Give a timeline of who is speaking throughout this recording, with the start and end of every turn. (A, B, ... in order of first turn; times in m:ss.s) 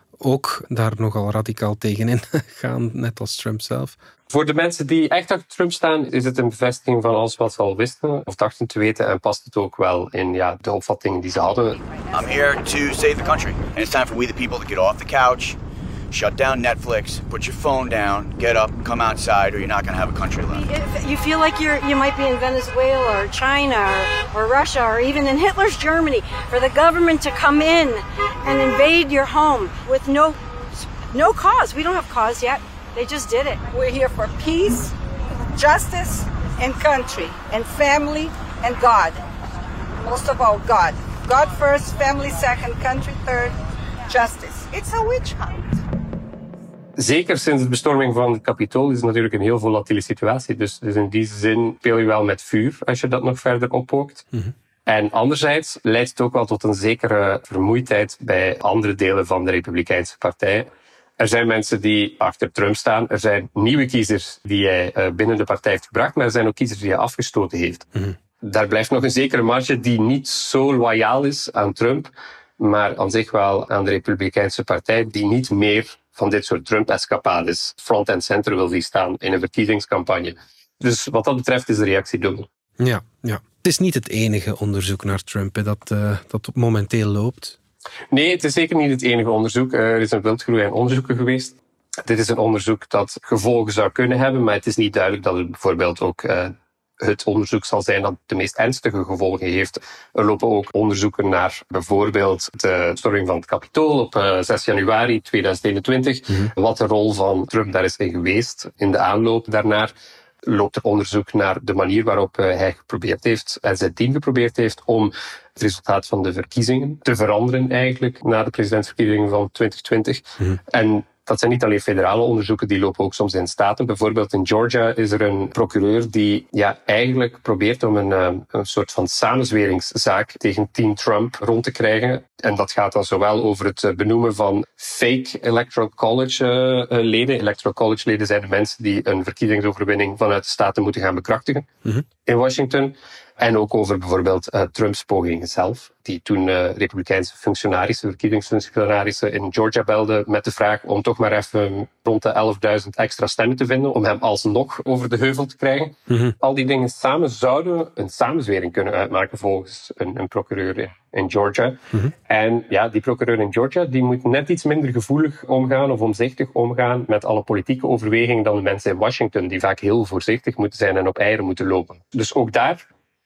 0:00.2-0:04.0 A
0:04.3-0:11.8 B
0:12.1-0:15.6 C
0:16.1-0:20.6 C
0:20.5-0:30.4 D
0:31.1-0:33.6 D
0:33.7-0:34.9 E
0:35.5-0:39.2 E
0:40.0-0:43.6 E
0:44.1-0:45.8 E
0:47.0-0:54.2 B
0:54.9-1:07.8 B
1:08.4-1:22.5 B
1:22.8-1:27.6 A
1:28.1-1:31.6 B
1:32.1-1:49.9 B
1:50.4-2:21.7 B
2:22.3-2:52.8 B